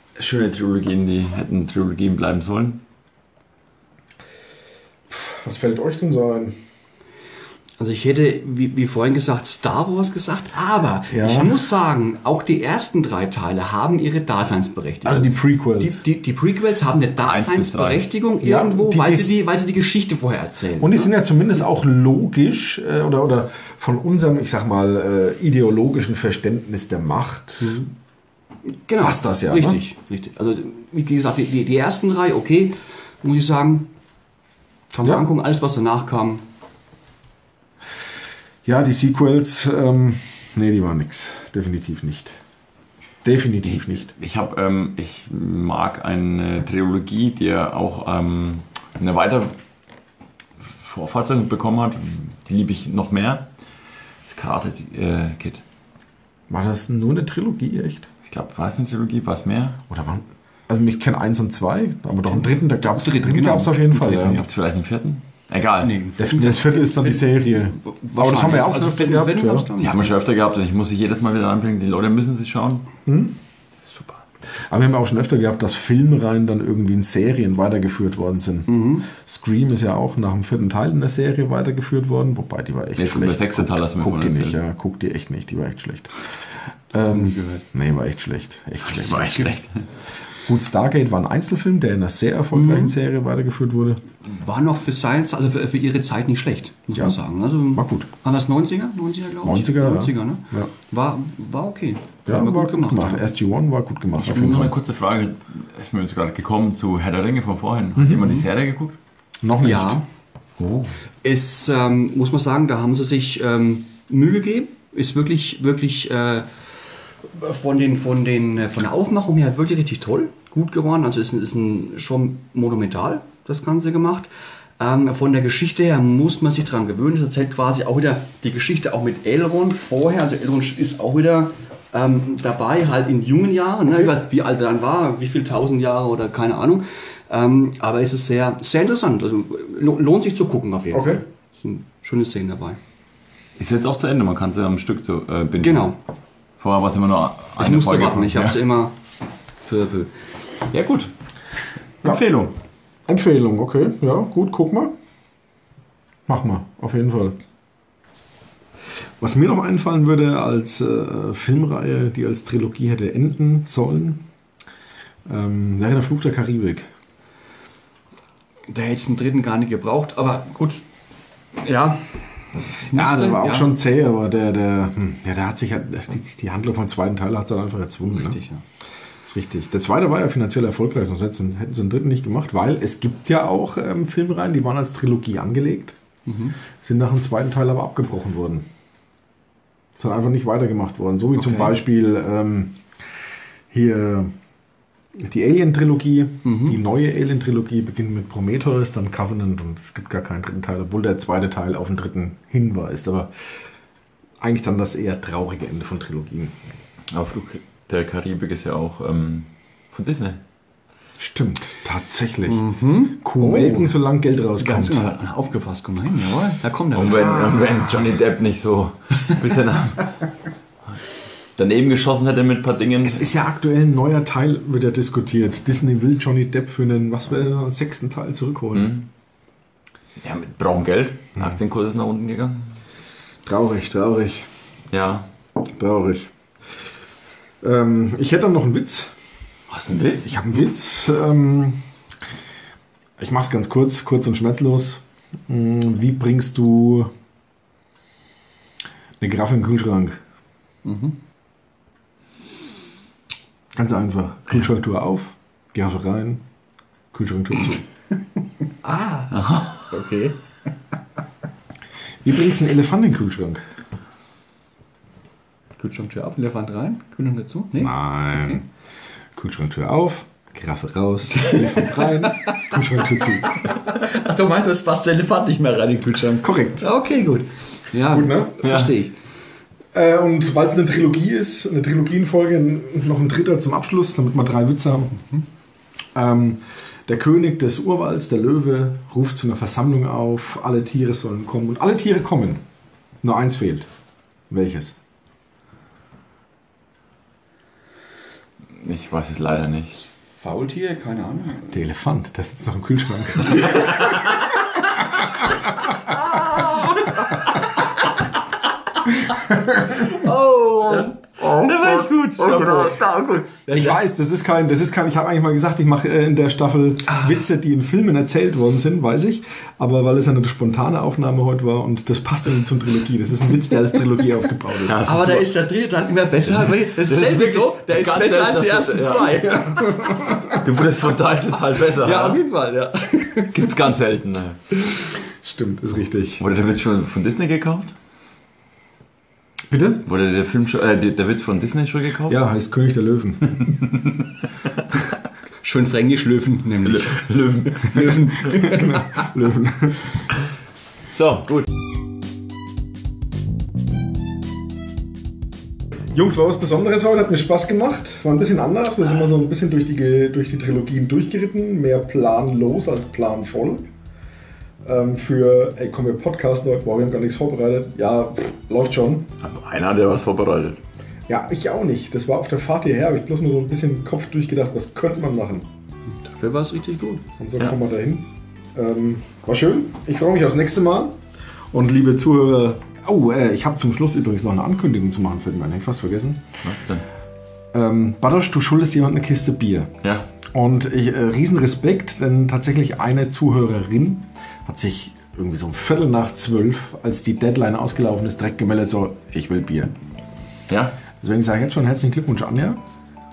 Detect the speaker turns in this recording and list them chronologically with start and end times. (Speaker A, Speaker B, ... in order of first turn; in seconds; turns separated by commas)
Speaker A: 0.2-2.8, Speaker B: 5.1-6.5, Speaker C: 7.8-21.1, Speaker B: 11.1-11.6, Speaker B: 15.1-16.0, Speaker A: 17.2-18.1, Speaker B: 18.4-19.4, Speaker B: 20.8-27.9, Speaker C: 27.6-27.9, Speaker C: 28.9-33.9, Speaker B: 29.0-29.8, Speaker C: 34.9-36.5, Speaker B: 38.6-42.4, Speaker B: 43.2-44.1, Speaker A: 43.7-49.5, Speaker A: 50.7-53.5, Speaker A: 54.3-55.6, Speaker B: 56.5-58.1, Speaker A: 58.3-59.8, Speaker B: 59.9-64.4, Speaker C: 62.3-64.5, Speaker A: 64.1-66.0, Speaker C: 65.8-70.1, Speaker B: 66.2-69.7, Speaker A: 69.8-72.9, Speaker B: 73.1-73.4, Speaker B: 74.7-86.1, Speaker C: 78.7-79.1, Speaker A: 83.0-84.6, Speaker B: 86.9-89.6, Speaker C: 87.0-87.7, Speaker A: 88.8-89.8, Speaker B: 90.4-94.0, Speaker C: 92.5-93.0, Speaker C: 94.2-103.3, Speaker B: 97.7-98.1, Speaker B: 99.4-100.7, Speaker B: 102.3-104.7, Speaker A: 104.2-109.0, Speaker C: 104.3-104.8, Speaker B: 108.0-108.3, Speaker C: 108.2-108.5, Speaker B: 109.4-110.0, Speaker C: 109.6-110.0, Speaker C: 111.2-116.5, Speaker C: 117.2-142.8, Speaker B: 140.9-141.2, Speaker A: 143.6-145.9, Speaker C: 145.6-146.0, Speaker A: 146.6-148.6, Speaker C: 147.6-149.0, Speaker C: 149.7-150.1, Speaker A: 150.7-151.1, Speaker A: 152.0-152.5, Speaker B: 153.1-154.9, Speaker B: 156.3-157.4, Speaker B: 159.2-164.2, Speaker B: 165.3-166.9, Speaker C: 168.7-170.8, Speaker C: 171.6-172.2, Speaker C: 172.9-173.7, Speaker B: 172.9-178.4, Speaker C: 178.1-178.6, Speaker B: 179.2-186.0, Speaker C: 186.3-186.6, Speaker B: 186.8-188.7, Speaker B: 190.0-192.8, Speaker C: 191.4-191.8, Speaker B: 193.7-194.3, Speaker B: 195.2-203.3, Speaker C: 196.4-196.8, Speaker B: 204.4-206.6, Speaker A: 207.1-210.4, Speaker B: 211.2-215.1, Speaker C: 212.5-213.9, Speaker C: 214.6-217.6, Speaker A: 216.9-220.2, Speaker B: 217.4-217.8, Speaker A: 221.6-223.3, Speaker B: 223.0-228.9, Speaker A: 228.7-229.1, Speaker A: 230.2-232.8, Speaker B: 233.5-234.5, Speaker A: 234.9-235.3, Speaker B: 235.6-236.3, Speaker B: 237.6-239.1, Speaker A: 239.7-240.3, Speaker B: 240.2-241.8, Speaker B: 243.2-247.1, Speaker B: 249.2-250.2, Speaker C: 250.8-251.2, Speaker B: 253.8-256.4, Speaker B: 257.1-257.8, Speaker C: 258.8-260.4, Speaker A: 259.3-259.9, Speaker B: 262.2-263.6, Speaker C: 265.8-268.6, Speaker B: 267.8-268.6, Speaker B: 269.4-273.5, Speaker C: 271.4-279.1, Speaker B: 276.4-276.9, Speaker B: 278.1-278.6, Speaker A: 278.6-279.0, Speaker B: 279.9-285.2, Speaker B: 286.1-292.6, Speaker B: 293.2-293.9, Speaker B: 294.5-295.0, Speaker A: 298.8-300.0, Speaker C: 300.1-301.8, Speaker B: 301.7-306.4, Speaker C: 306.2-307.4, Speaker B: 309.3-310.2, Speaker C: 309.9-314.0, Speaker A: 310.9-313.1, Speaker B: 311.4-311.9, Speaker B: 312.6-312.9, Speaker B: 313.7-325.2, Speaker A: 324.8-325.5, Speaker C: 325.1-330.0, Speaker A: 326.5-329.6, Speaker B: 329.5-330.6, Speaker A: 330.5-332.4, Speaker C: 331.7-333.7, Speaker A: 333.5-334.6, Speaker B: 335.4-336.4, Speaker A: 336.4-337.9, Speaker B: 339.7-340.1, Speaker A: 340.1-342.4, Speaker B: 342.3-343.6, Speaker A: 343.7-344.2, Speaker C: 345.6-349.2, Speaker A: 346.9-348.4, Speaker B: 348.1-350.0, Speaker A: 351.1-351.7, Speaker B: 356.1-363.9, Speaker B: 364.8-369.3, Speaker A: 369.4-370.8, Speaker B: 371.3-375.7, Speaker C: 376.1-377.2, Speaker B: 377.4-381.2, Speaker B: 381.7-386.5, Speaker A: 386.6-387.1, Speaker B: 387.7-389.9, Speaker B: 390.5-399.9, Speaker A: 400.7-401.0, Speaker B: 401.2-402.8